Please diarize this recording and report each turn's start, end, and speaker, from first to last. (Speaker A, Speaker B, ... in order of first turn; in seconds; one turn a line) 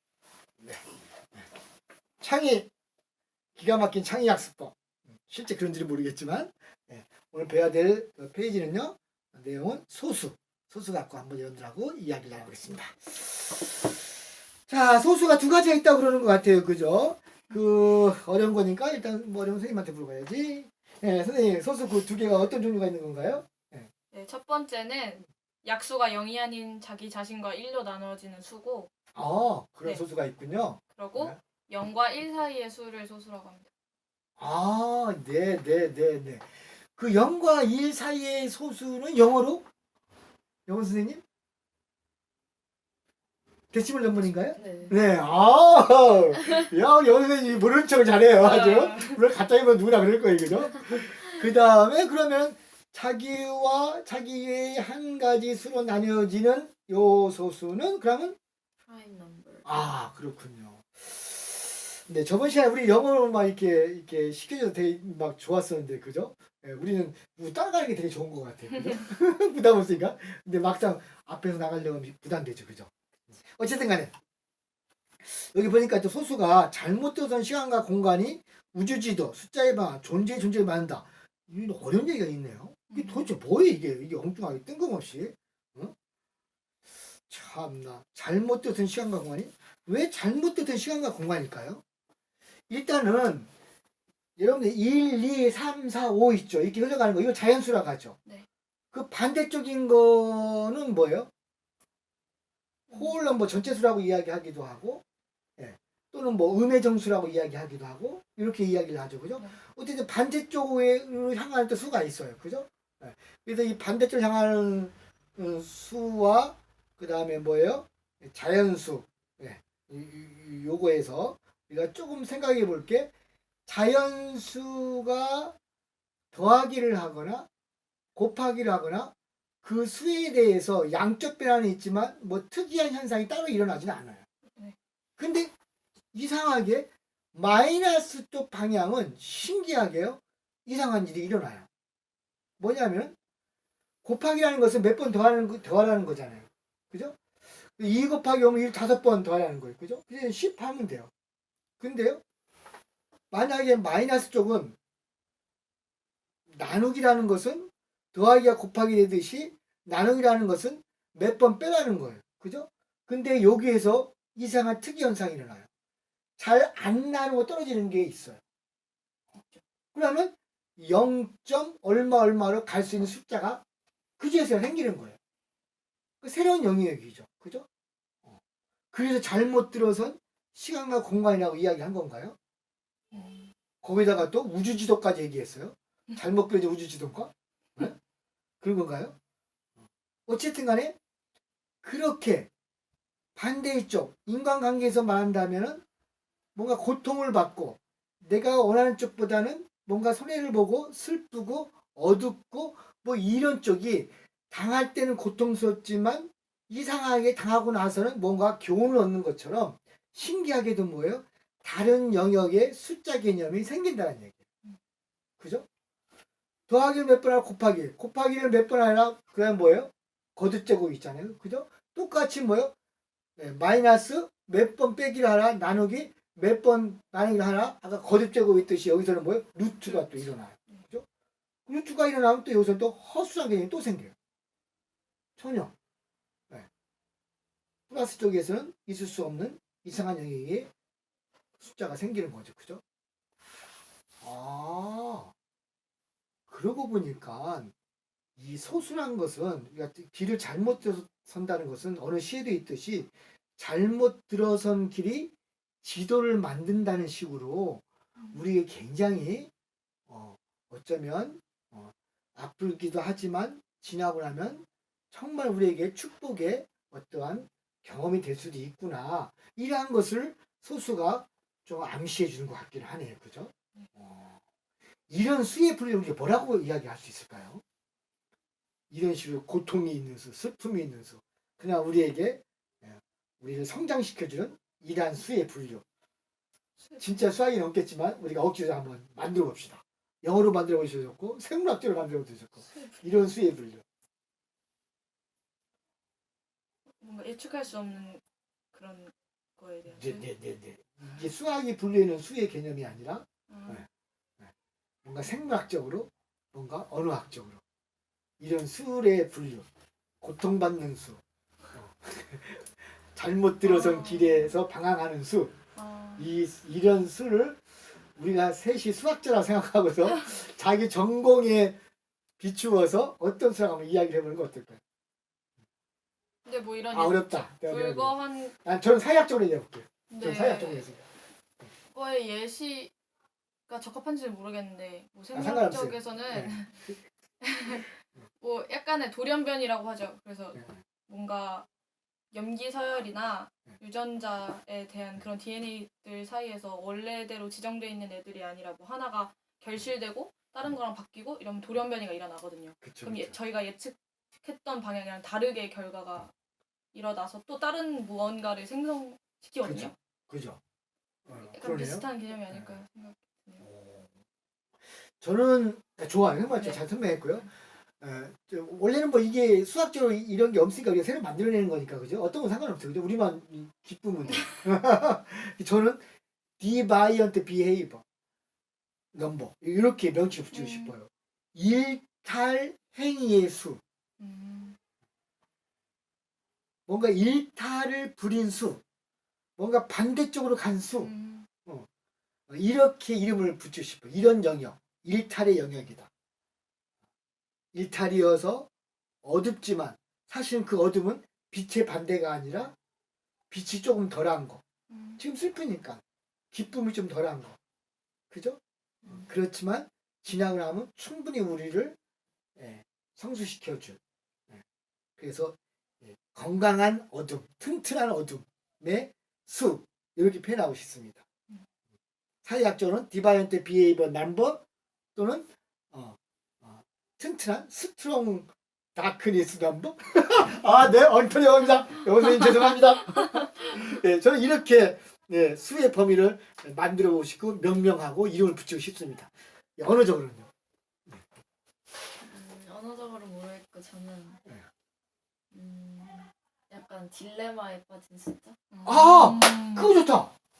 Speaker A: 2.2-2.7
Speaker A: 3.5-13.9
Speaker A: 14.7-23.9
Speaker B: 24.1-28.9
Speaker A: 29.1-31.4
Speaker B: 30.9-33.7
Speaker A: 34.4-39.6
Speaker A: 40.7-41.2
Speaker A: 43.7-58.4
Speaker C: 44.5-45.0
Speaker B: 48.4-49.2
Speaker C: 58.9-59.7
Speaker A: 59.6-72.9
Speaker A: 73.5-74.1
Speaker A: 75.3-85.9
Speaker B: 82.9-83.3
Speaker A: 87.3-91.8
Speaker A: 92.7-93.5
Speaker A: 94.4-98.2
Speaker A: 98.9-101.3
Speaker A: 102.9-105.0
Speaker A: 105.6-123.1
Speaker A: 123.7-125.5
Speaker A: 126.3-127.5
Speaker A: 128.1-129.1
Speaker A: 129.6-134.2
Speaker A: 135.2-135.5
Speaker A: 136.1-141.7
Speaker A: 142.6-143.1
Speaker A: 144.0-147.2
Speaker A: 147.8-151.1
Speaker A: 151.8-152.2
Speaker A: 153.3-154.8
Speaker A: 156.5-165.7
Speaker A: 166.4-168.4
Speaker B: 169.3-169.6
Speaker A: 169.9-173.6
Speaker A: 174.2-175.2
Speaker A: 176.2-177.7
Speaker A: 178.9-182.3
Speaker B: 183.1-183.5
Speaker A: 183.8-187.9
Speaker A: 188.6-189.2
Speaker A: 190.3-190.9
Speaker A: 191.8-192.5
Speaker A: 193.3-195.8
Speaker A: 196.5-214.4
Speaker A: 215.4-215.7
Speaker A: 216.7-222.7
Speaker A: 223.4-231.1
Speaker B: 229.8-230.8
Speaker A: 231.7-234.1
Speaker A: 235.4-235.7
Speaker A: 237.9-240.7
Speaker A: 241.6-242.8
Speaker A: 244.2-245.3
Speaker A: 246.5-247.7
Speaker A: 248.4-259.5
Speaker A: 260.1-274.4
Speaker A: 275.1-277.6
Speaker A: 278.9-285.8
Speaker B: 286.8-287.2
Speaker A: 287.0-293.8
Speaker B: 292.6-293.3
Speaker B: 297.0-298.2
Speaker B: 298.7-300.3
Speaker A: 299.9-303.9
Speaker B: 303.5-303.8
Speaker A: 305.0-307.6
Speaker A: 308.4-309.6
Speaker A: 310.2-311.2
Speaker A: 311.7-315.5
Speaker B: 313.6-314.6
Speaker B: 315.8-316.3
Speaker A: 316.2-317.6
Speaker A: 318.1-321.8
Speaker A: 322.4-324.8
Speaker B: 326.4-328.6
Speaker A: 326.9-331.0
Speaker B: 330.1-330.9
Speaker B: 331.9-332.9
Speaker B: 333.7-336.8
Speaker A: 335.3-336.9
Speaker B: 337.4-341.7
Speaker B: 342.3-356.3
Speaker A: 352.8-353.3
Speaker B: 356.9-359.9
Speaker A: 359.6-360.6
Speaker A: 361.2-362.8
Speaker B: 361.4-363.6
Speaker A: 363.6-364.1
Speaker A: 365.2-367.5
Speaker B: 366.6-366.8
Speaker A: 368.0-376.0
Speaker A: 376.6-378.0
Speaker A: 379.1-383.8
Speaker B: 380.5-380.9
Speaker B: 384.2-384.8
Speaker A: 386.9-388.8
Speaker A: 389.6-391.1
Speaker B: 391.0-391.5
Speaker A: 392.5-396.1
Speaker A: 397.7-398.7
Speaker A: 399.2-402.7
Speaker A: 403.5-404.6
Speaker B: 404.9-405.2
Speaker A: 405.2-407.6
Speaker A: 408.3-411.9
Speaker A: 412.6-414.0
Speaker A: 415.2-421.2
Speaker A: 422.4-424.6
Speaker A: 425.1-440.5
Speaker C: 442.2-444.4
Speaker C: 445.5-448.6
Speaker B: 448.7-450.0
Speaker A: 448.8-450.3